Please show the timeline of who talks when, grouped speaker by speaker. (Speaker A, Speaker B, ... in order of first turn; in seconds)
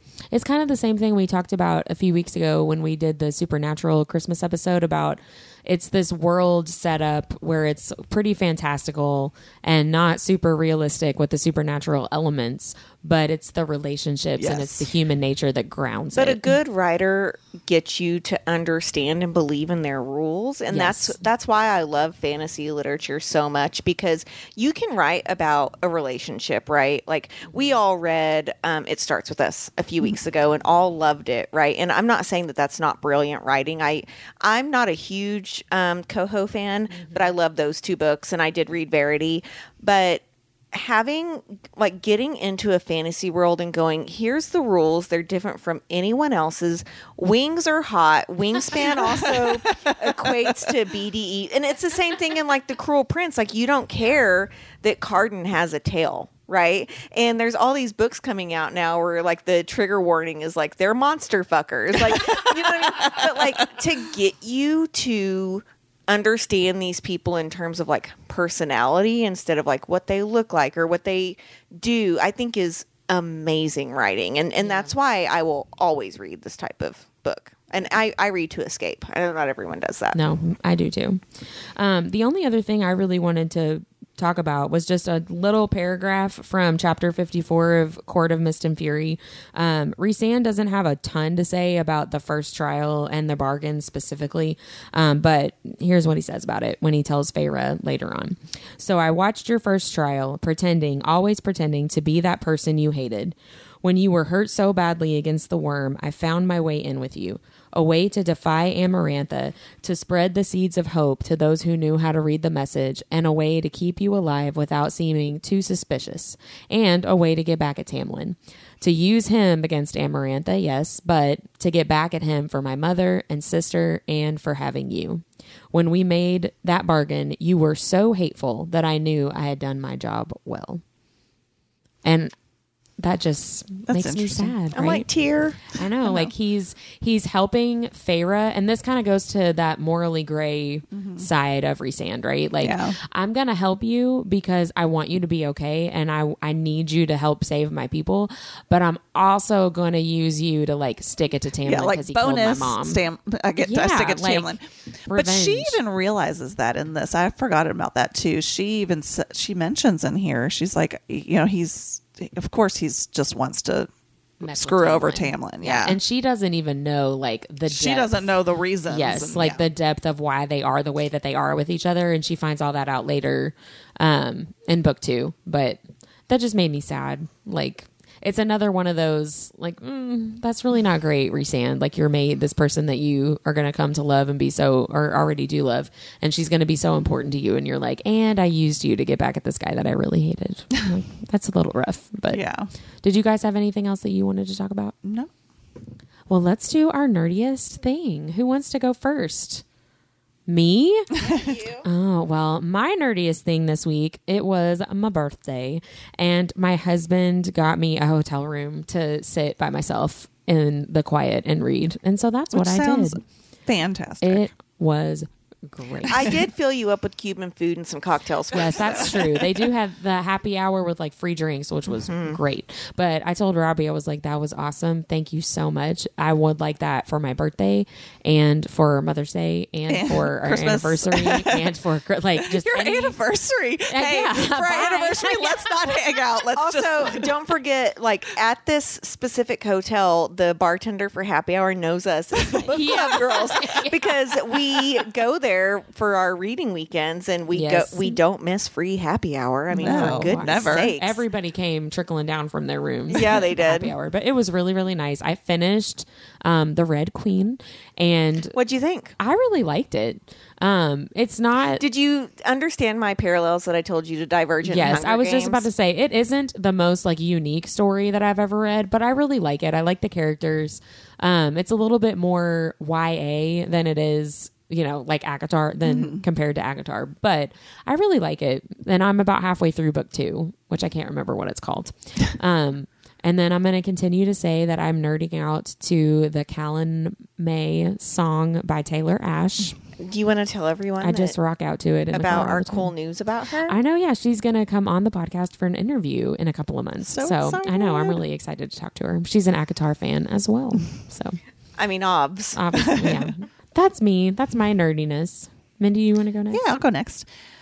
Speaker A: 0.3-16.5, 20.7-21.2, 36.9-37.3, 74.6-74.9, 80.1-130.8, 132.0-132.3, 133.0-135.1, 135.7-153.0, 153.6-154.6, 155.1-155.8, 164.4-168.4, 168.9-192.4, 193.0-194.9, 196.3-199.6, 200.5-201.1, 201.8-213.2, 214.2-216.3, 218.5-233.2, 233.9-235.7, 242.6-244.1, 247.5-248.2, 249.7-258.6, 259.2-261.8, 264.6-289.8, 291.0-292.9, 293.7-301.4, 302.5-306.7
Speaker B: 14.4-14.9, 48.7-50.7, 62.0-63.7, 133.9-134.6, 136.0-136.3, 140.9-141.3, 142.6-143.0, 151.6-163.9, 164.4-166.0, 167.7-169.6, 192.3-192.7, 195.0-195.3, 201.2-201.6, 212.5-214.5, 229.9-231.7, 232.4-237.3, 249.8-250.9, 275.8-276.2, 297.0-298.2, 303.0-303.3, 306.5-307.3
Speaker C: 16.1-80.2, 134.7-135.6, 201.2-201.8, 216.1-219.2, 221.9-222.4, 236.6-251.2, 253.1-253.9, 258.5-259.1, 261.8-265.7, 290.0-291.3, 292.1-293.8, 301.8-302.9